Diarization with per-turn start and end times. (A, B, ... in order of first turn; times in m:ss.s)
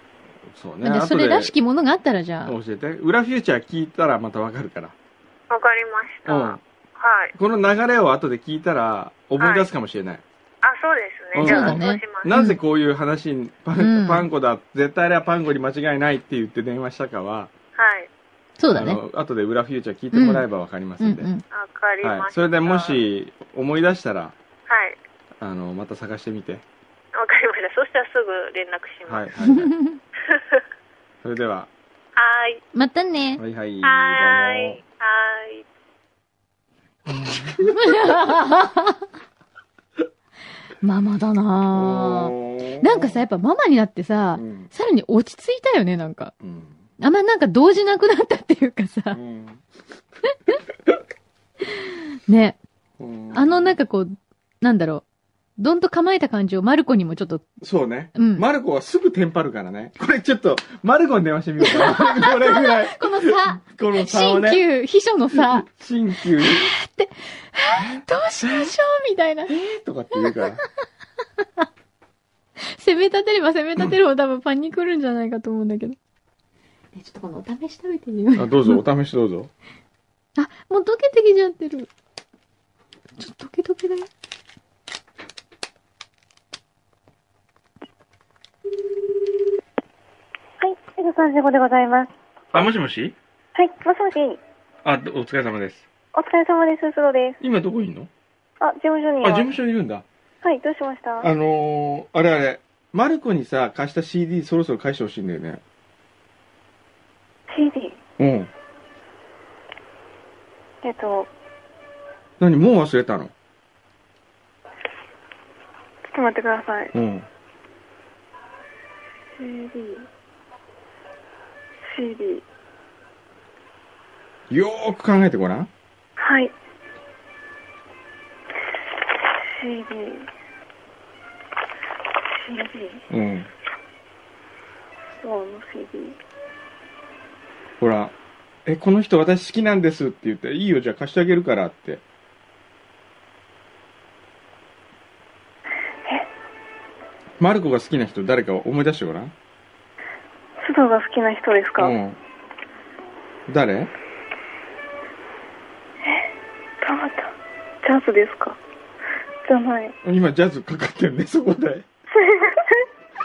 0:00.5-0:01.5 A
0:00.8-0:02.6 B
0:02.4-0:05.0 A
0:05.5-0:07.3 C
0:06.3-0:06.6 A
0:07.4-0:10.2 A
0:09.4-0:09.7 C
0:10.6-0:12.3 C
0:11.3-0:17.5 A
0:11.4-0:12.6 B
0:13.8-0:14.3 B
0:17.8-0:18.1 C
0:18.6-0:19.0 B
0:18.7-0:21.3 A
0:20.1-0:20.4 B
0:21.0-0:21.4 B
0:21.5-0:23.0 C
0:22.0-0:24.4 A
0:24.7-0:25.0 C
0:25.4-0:26.6 A
0:27.1-0:29.3 C
0:29.1-0:29.7 A
0:29.4-0:30.0 B
0:30.3-0:30.6 C
0:31.2-0:31.7 A
0:32.2-0:32.6 C
0:32.8-0:33.4 B
0:33.4-0:34.8 A
0:33.8-0:35.6 C
0:37.1-0:38.0 A
0:37.6-0:39.1 B
0:40.8-0:46.3 B
0:41.7-0:43.2 A
0:44.4-0:44.7 A
0:46.4-0:46.8 A
0:47.0-0:49.2 B
0:49.1-0:49.6 A
0:51.8-0:52.6 B
0:53.0-0:53.8 A
0:53.3-0:55.0 B
0:55.6-0:57.4 B
0:57.6-1:04.6 A
0:58.2-0:58.4 B
1:01.6-1:05.7 B
1:05.3-1:06.7 A
1:06.4-1:09.5 B
1:07.8-1:08.7 A
1:09.4-1:10.6 A
1:12.6-1:16.0 B
1:16.9-1:18.8 B
1:18.4-1:19.5 A
1:20.4-1:21.9 B
1:23.2-1:24.1 B
1:30.6-1:32.1 D
1:32.5-1:33.2 A
1:33.6-1:34.4 D
1:34.8-1:35.9 A
1:36.1-1:37.4 D
1:37.4-1:38.1 A
1:38.6-1:39.5 D
1:39.2-1:40.0 A
1:40.4-1:41.3 D
1:41.2-1:45.6 A
1:47.5-1:48.0 D
1:48.2-1:48.5 A
1:50.8-1:51.3 D
1:52.4-1:53.3 A
1:56.1-1:56.9 D
1:56.9-1:57.3 A
1:59.4-2:00.1 D
2:01.9-2:02.4 D
2:04.5-2:05.7 A
2:06.2-2:06.5 D
2:09.5-2:10.3 D
2:12.4-2:13.0 D
2:13.1-2:13.5 A
2:15.2-2:16.2 D
2:17.8-2:18.1 A
2:18.7-2:22.0 A
2:27.4-2:29.3 A
2:30.6-2:32.0 D
2:31.8-2:32.2 A
2:33.5-2:33.9 A
2:36.8-2:37.3 D
2:37.8-2:38.6 D
2:39.5-2:40.0 D
2:40.0-2:41.9 A
2:42.1-2:42.9 D